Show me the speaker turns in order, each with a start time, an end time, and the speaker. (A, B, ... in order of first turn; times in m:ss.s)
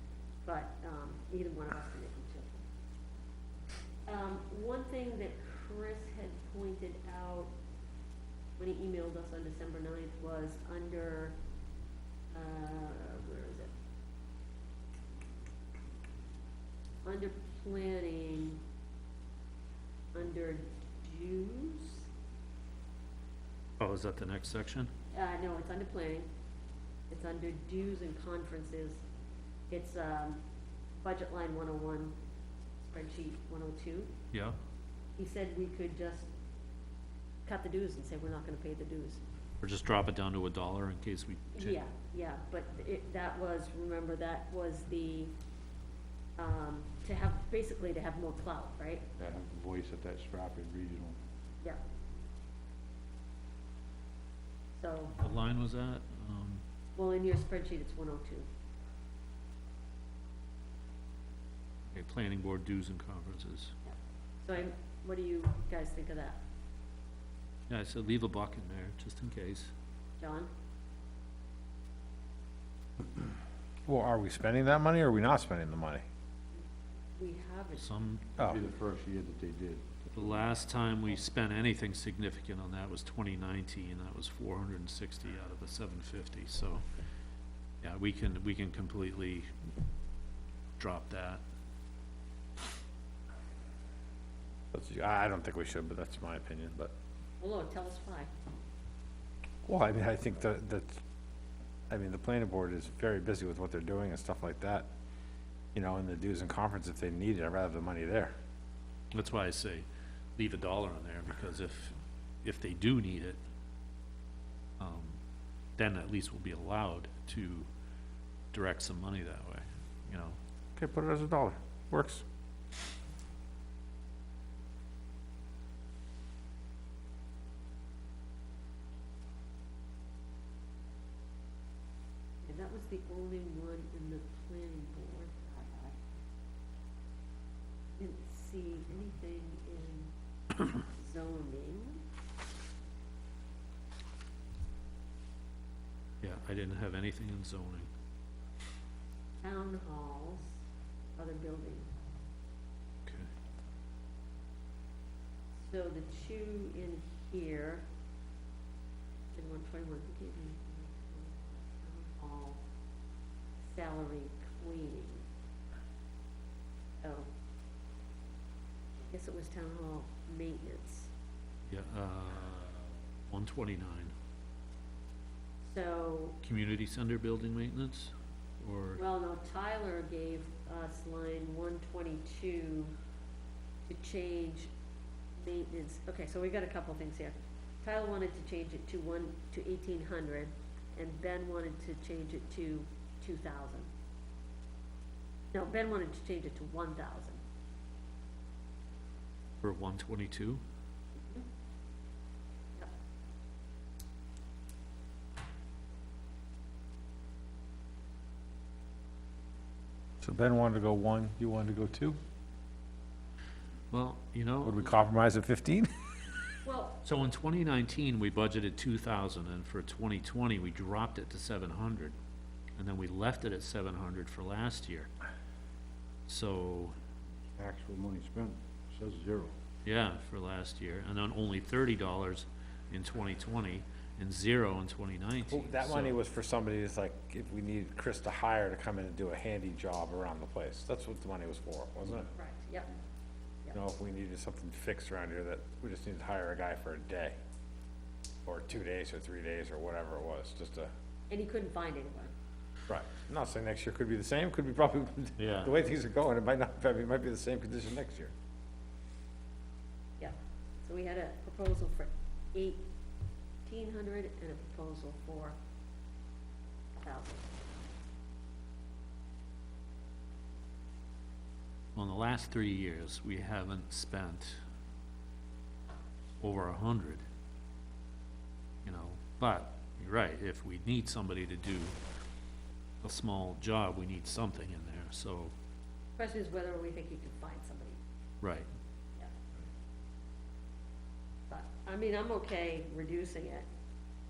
0:00.4-0:02.6 A
0:04.1-0:07.5 A
0:08.6-0:11.4 A
0:12.3-0:13.7 A
0:17.0-0:18.6 A
0:20.1-0:22.1 A
0:23.8-0:24.9 B
0:25.1-0:26.3 A
0:27.1-0:29.0 A
0:29.7-0:30.4 A
0:31.0-0:32.2 A
0:32.8-0:34.1 A
0:34.3-0:34.6 B
0:35.2-0:36.3 A
0:37.5-0:39.2 A
0:39.6-0:41.8 B
0:41.6-0:45.3 A
0:46.4-0:49.0 A
0:49.2-0:51.2 C
0:54.8-0:55.2 A
0:55.2-0:56.6 B
0:57.0-0:58.5 A
1:01.9-1:03.7 B
1:03.9-1:06.4 A
1:07.7-1:09.7 B
1:10.2-1:10.5 A
1:13.9-1:16.0 D
1:17.2-1:17.9 A
1:17.8-1:18.3 B
1:18.4-1:18.6 D
1:18.4-1:20.1 C
1:20.1-1:26.8 B
1:27.8-1:29.5 B
1:30.8-1:31.4 B
1:34.7-1:36.9 D
1:37.4-1:38.3 A
1:39.7-1:41.0 D
1:41.9-1:44.9 D
1:45.7-1:48.3 D
1:49.1-1:49.8 B
1:50.4-1:53.4 B
1:54.8-1:55.2 B
1:55.8-1:57.7 B
1:58.5-2:00.4 B
2:00.8-2:02.2 D
2:12.4-2:16.1 A
2:18.0-2:20.1 A
2:20.7-2:22.0 A
2:26.2-2:27.9 B
2:29.4-2:30.6 A
2:31.2-2:31.9 A
2:35.6-2:37.8 A
2:39.3-2:42.6 A
2:43.6-2:45.2 A
2:47.0-2:47.3 A
2:49.1-2:51.1 A
2:51.7-2:54.1 B
2:55.6-2:56.4 A
2:56.4-2:59.0 B
2:59.0-3:03.0 A
3:03.9-3:04.7 A
3:05.4-3:13.9 A
3:15.5-3:17.4 A
3:19.6-3:20.6 B
3:21.2-3:21.5 A
3:30.2-3:32.2 D
3:33.9-3:34.9 B
3:34.6-3:35.9 D
3:36.6-3:37.0 A
3:37.0-3:42.2 B
3:42.8-3:45.1 B
3:46.3-3:46.9 B
3:47.6-3:49.6 C
3:49.8-3:56.2 B
3:55.5-4:02.3 D
4:02.4-4:02.9 A
4:03.7-4:07.3 D
4:08.4-4:10.9 D
4:11.3-4:12.3 A
4:12.9-4:18.3 D
4:15.4-4:15.8 B
4:20.2-4:22.8 A
4:23.6-4:25.6 A
4:27.0-4:27.5 A
4:32.0-4:34.6 B
4:36.4-4:37.2 B
4:38.8-4:42.0 B
4:43.0-4:45.5 B
4:46.2-4:48.0 A
4:48.4-4:48.7 B
4:51.5-4:53.7 A